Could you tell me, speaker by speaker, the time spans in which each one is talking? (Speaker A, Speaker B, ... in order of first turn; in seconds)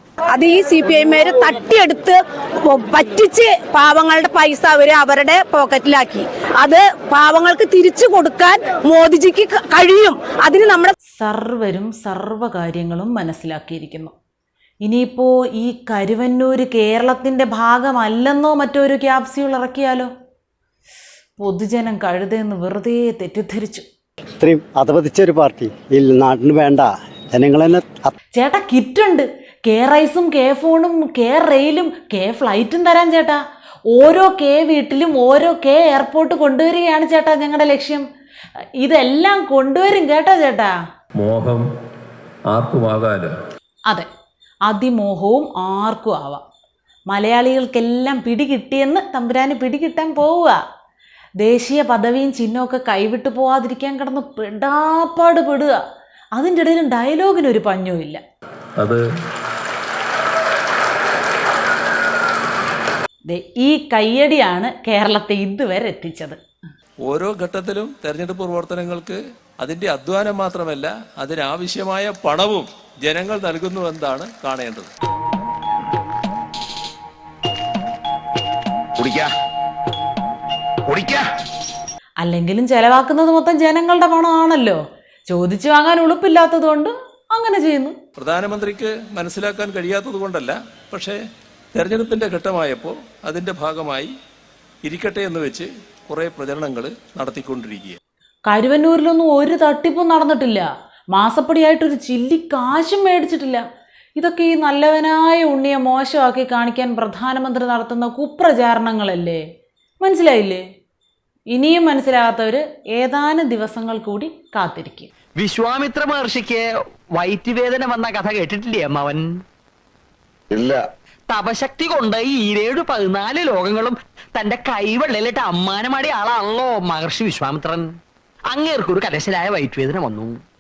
Speaker A: 0.3-10.9
Speaker B: 11.1-14.1, 14.8-20.1, 21.4-23.9, 28.3-38.0, 38.8-40.8, 44.7-46.4, 47.1-50.6, 51.4-55.8, 56.4-58.2, 63.3-66.4, 82.2-88.0, 98.5-103.6, 104.2-109.4, 110.0-110.6, 111.5-115.1
Speaker C: 24.4-28.1
Speaker D: 41.1-41.6, 42.5-43.3, 67.0-74.9, 88.2-91.2, 91.7-94.1, 94.8-98.0
Speaker E: 115.4-116.6, 117.1-119.2, 121.3-127.9, 128.5-130.3